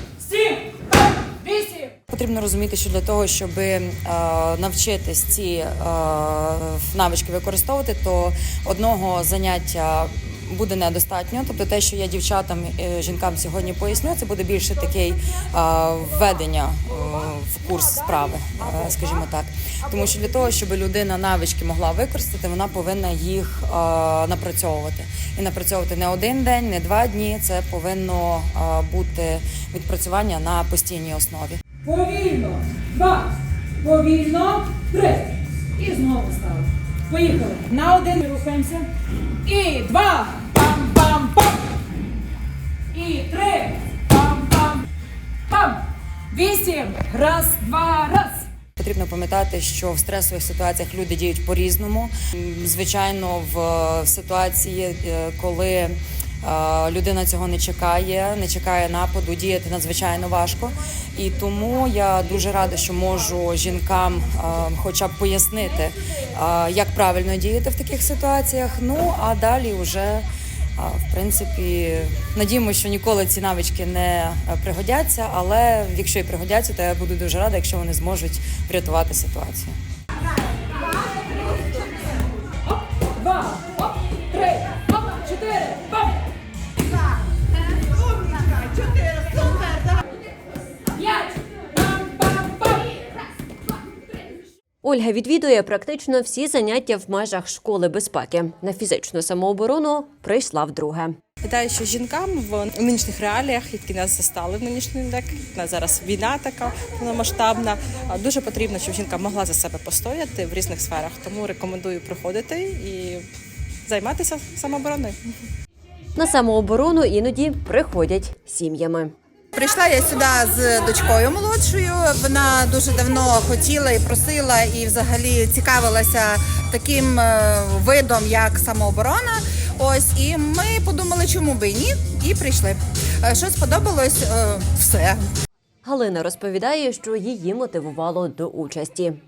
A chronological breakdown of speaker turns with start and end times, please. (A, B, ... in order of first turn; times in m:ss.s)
0:00.2-0:02.0 A
0:02.0-0:31.7 B
0:17.0-0:17.4 A
0:18.1-0:19.2 A
0:31.8-0:38.9 A
0:39.4-0:41.7 A
0:42.9-0:44.8 A
0:45.5-0:48.5 A
0:48.8-1:10.2 B
1:10.8-1:19.8 B
1:23.0-1:26.2 A
1:31.0-1:33.1 A
1:34.8-1:41.2 C
1:41.4-1:53.2 D
1:53.8-1:55.2 D
1:56.2-1:59.1 C
1:59.5-2:15.2 E
2:15.8-2:19.2 C